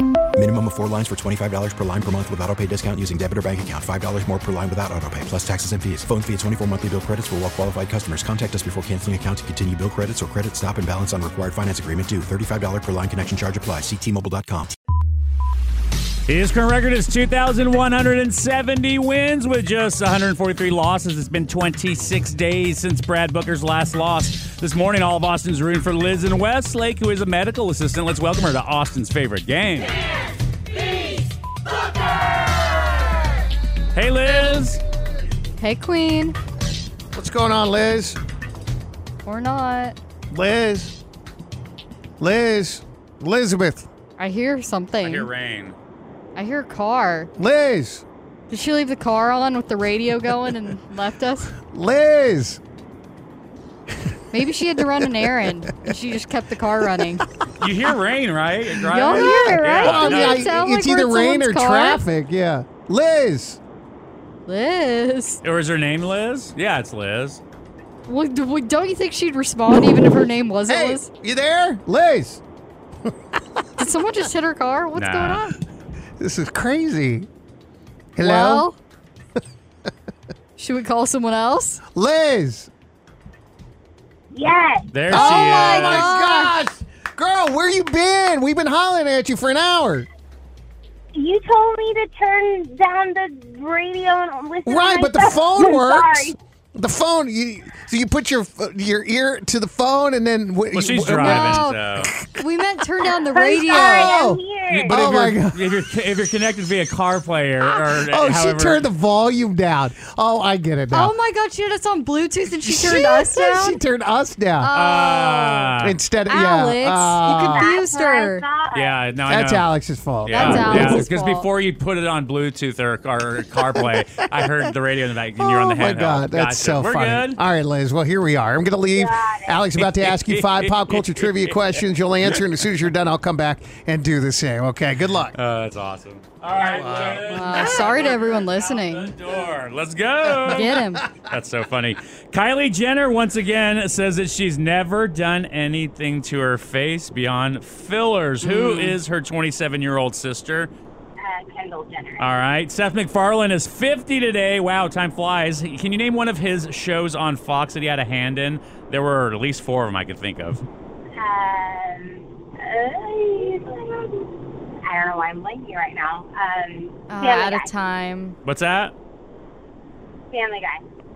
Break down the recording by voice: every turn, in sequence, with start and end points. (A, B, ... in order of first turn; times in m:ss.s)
0:00.3-0:14.7 A
0:16.3-0:29.9 B
0:33.9-0:34.8 B
0:35.6-0:36.4 C
0:37.1-0:38.2 D
0:39.2-0:40.0 C
0:40.3-0:41.0 D
0:42.2-0:43.9 D
0:44.2-0:45.3 C
0:45.0-0:45.8 B
0:46.4-0:47.3 C
0:47.4-0:48.0 D
0:48.5-0:51.6 C
0:51.6-0:52.6 D
0:54.3-0:57.2 C
0:55.0-0:55.9 D
0:57.6-1:00.5 B
0:58.9-1:02.0 C
0:58.9-1:03.6 D
1:04.5-1:05.4 C
1:05.4-1:07.4 B
1:08.1-1:11.1 C
1:10.7-1:12.4 D
1:13.8-1:15.6 C
1:14.9-1:15.4 B
1:16.2-1:17.3 D
1:18.2-1:18.7 D
1:18.2-1:18.8 C
1:20.6-1:21.8 C
1:21.9-1:22.7 D
1:24.3-1:25.0 E
1:24.9-1:26.1 B
1:25.0-1:26.6 C
1:25.1-1:30.1 D
1:31.1-1:36.4 E
1:34.6-1:42.4 D
1:40.7-1:42.1 B
1:41.1-1:44.2 C
1:43.0-1:45.0 E
1:44.0-1:45.7 D
1:44.7-1:48.9 B
1:47.9-1:51.1 D
1:50.9-1:53.8 C
1:52.6-1:54.7 D
1:53.2-1:53.7 E
1:54.6-1:58.4 C
1:54.7-1:56.0 B
1:55.8-1:57.6 D
1:57.2-1:59.0 E
1:58.7-1:59.7 B
1:59.2-2:01.1 D
2:00.2-2:07.4 B
2:00.3-2:01.5 C
2:05.4-2:15.3 D
2:08.9-2:09.6 E
2:09.7-2:12.4 B
2:15.3-2:30.7 B
2:16.5-2:18.0 D
2:17.2-2:19.1 C
2:20.2-2:21.0 D
2:20.4-2:21.0 C
2:28.4-2:29.0 C
2:31.2-2:32.3 E
2:32.2-2:40.6 B
2:41.1-2:47.7 E
2:47.1-2:48.4 C
2:48.4-2:48.9 B
2:50.3-2:50.8 E